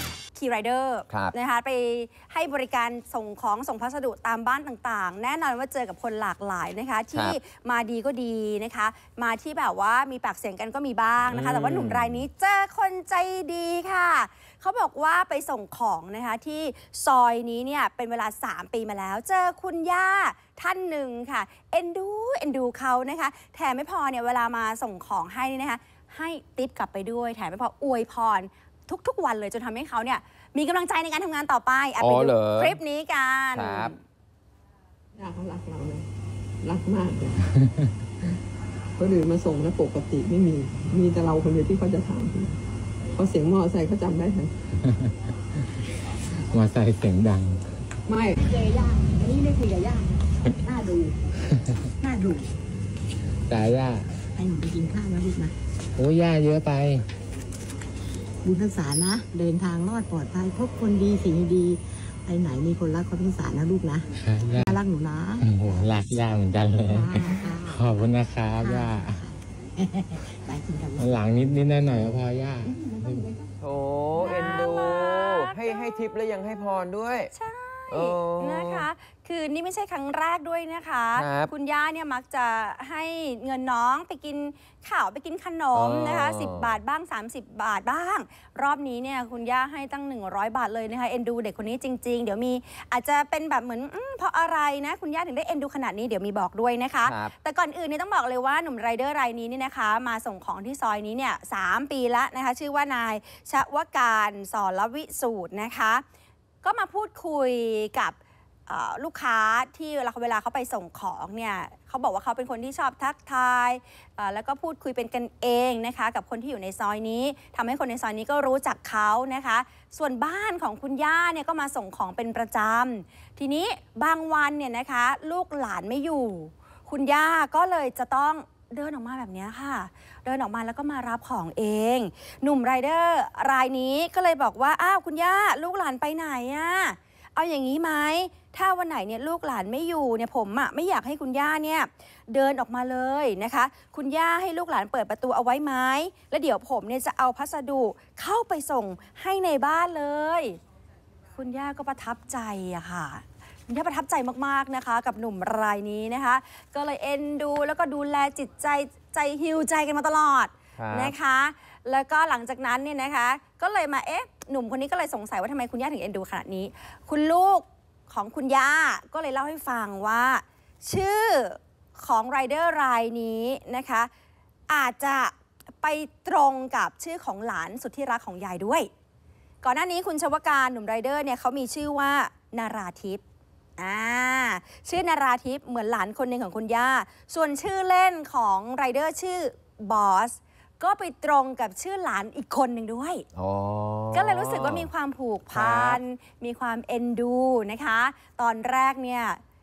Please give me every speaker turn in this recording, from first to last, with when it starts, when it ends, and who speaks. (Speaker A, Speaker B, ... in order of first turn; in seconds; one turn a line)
Speaker A: 0.3-34.0
Speaker B: 7.1-7.4
Speaker B: 11.3-12.2
Speaker B: 32.0-32.8
Speaker B: 33.5-33.9
Speaker C: 35.2-36.0
Speaker C: 36.6-37.4
Speaker D: 37.6-37.9
Speaker C: 39.0-42.6
Speaker C: 43.2-44.5
Speaker D: 44.8-45.1
Speaker D: 46.5-47.6
Speaker C: 48.1-48.4
Speaker E: 48.4-50.1
Speaker E: 50.6-51.1
Speaker E: 52.0-52.5
Speaker D: 53.5-54.1
Speaker E: 54.4-55.5
Speaker D: 56.0-57.0
Speaker E: 58.4-65.5
Speaker D: 64.2-64.8
Speaker D: 65.4-69.2
Speaker E: 66.9-68.1
Speaker E: 68.6-71.1
Speaker D: 71.0-73.3
Speaker B: 73.6-77.3
Speaker A: 74.2-76.0
Speaker A: 77.3-106.0
Speaker B: 77.9-78.9
Speaker B: 81.2-81.5
Speaker B: 85.7-86.8
Speaker B: 97.0-97.3
Speaker A: 106.6-108.2
Speaker A: 108.7-150.6
Speaker A: 151.3-174.1
Speaker B: 160.8-161.1
Speaker A: 174.7-178.9
Speaker A: 179.6-183.2
Speaker A: 183.8-193.2
Speaker B: 193.3-194.9
Speaker A: 194.1-199.4
Speaker B: 195.5-196.0